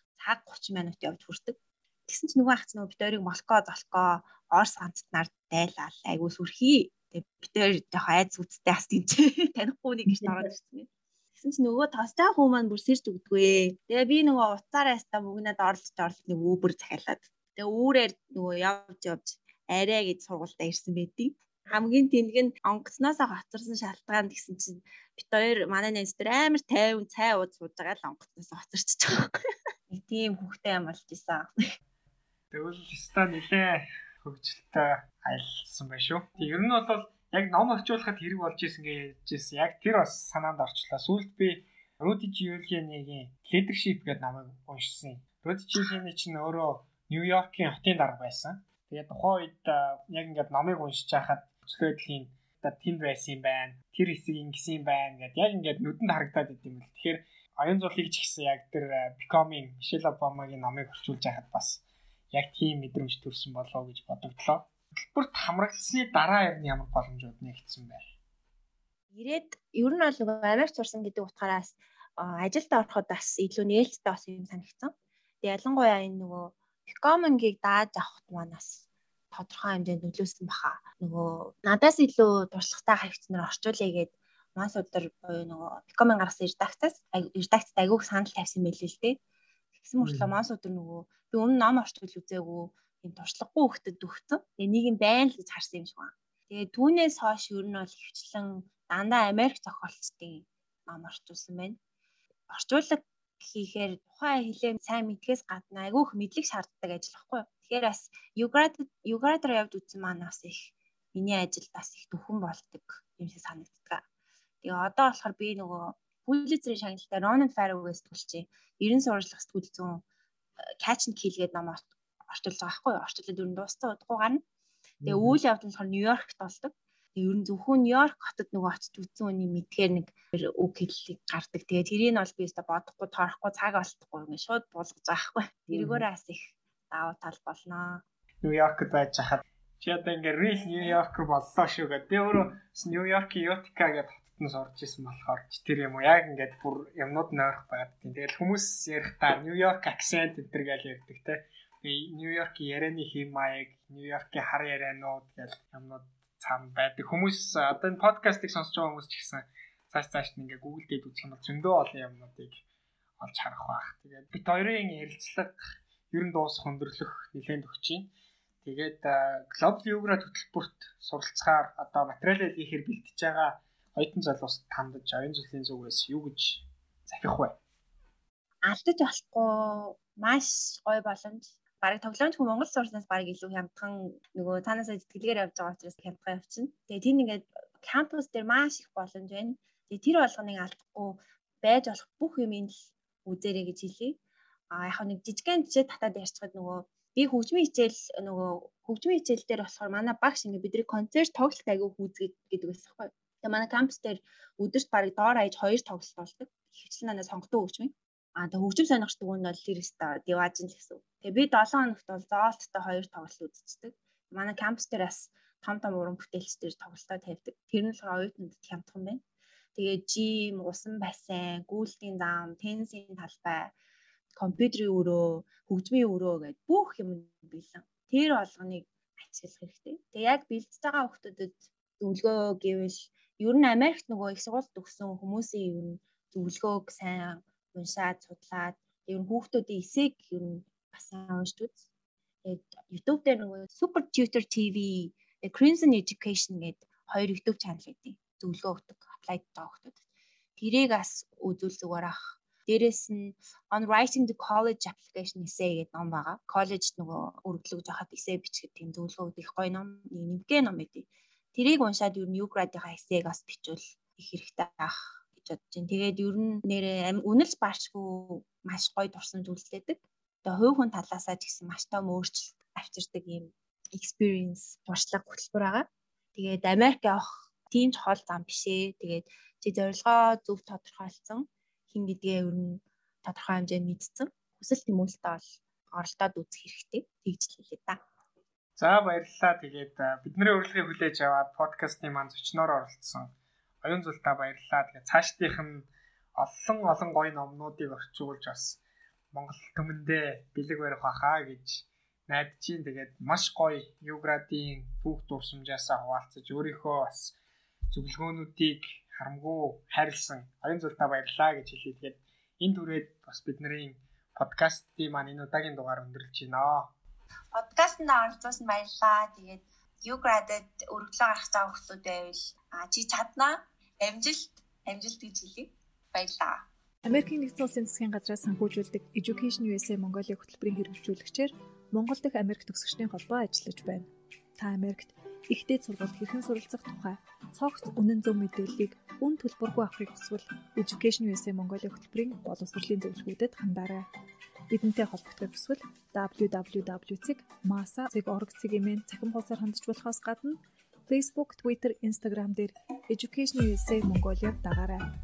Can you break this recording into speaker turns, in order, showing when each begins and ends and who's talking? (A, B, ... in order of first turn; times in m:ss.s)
0:00.2-0:29.4 A
0:10.1-0:10.4 B
0:29.9-0:31.5 A
0:32.5-1:08.0 B
1:09.1-1:14.9 A
1:15.4-1:29.2 A
1:29.8-1:41.8 A
1:30.0-1:30.3 B
1:42.5-1:54.0 A
1:54.6-2:00.0 A
2:00.8-2:04.4 A
2:05.0-2:05.4 B
2:05.0-2:18.0 A
2:15.7-2:16.0 B
2:18.4-2:42.6 B
2:43.2-2:48.1 B
2:48.6-2:57.6 B
2:58.6-3:14.2 A
3:14.7-3:39.2 A
3:39.7-3:43.7 A
3:44.4-4:01.8 A
4:02.4-4:10.0 A
4:10.6-4:48.0 A
4:48.8-4:58.8 B
4:59.3-5:07.4 B
5:07.9-5:16.9 B
5:17.5-5:26.7 A
5:27.0-5:44.1 C
5:44.7-5:55.0 C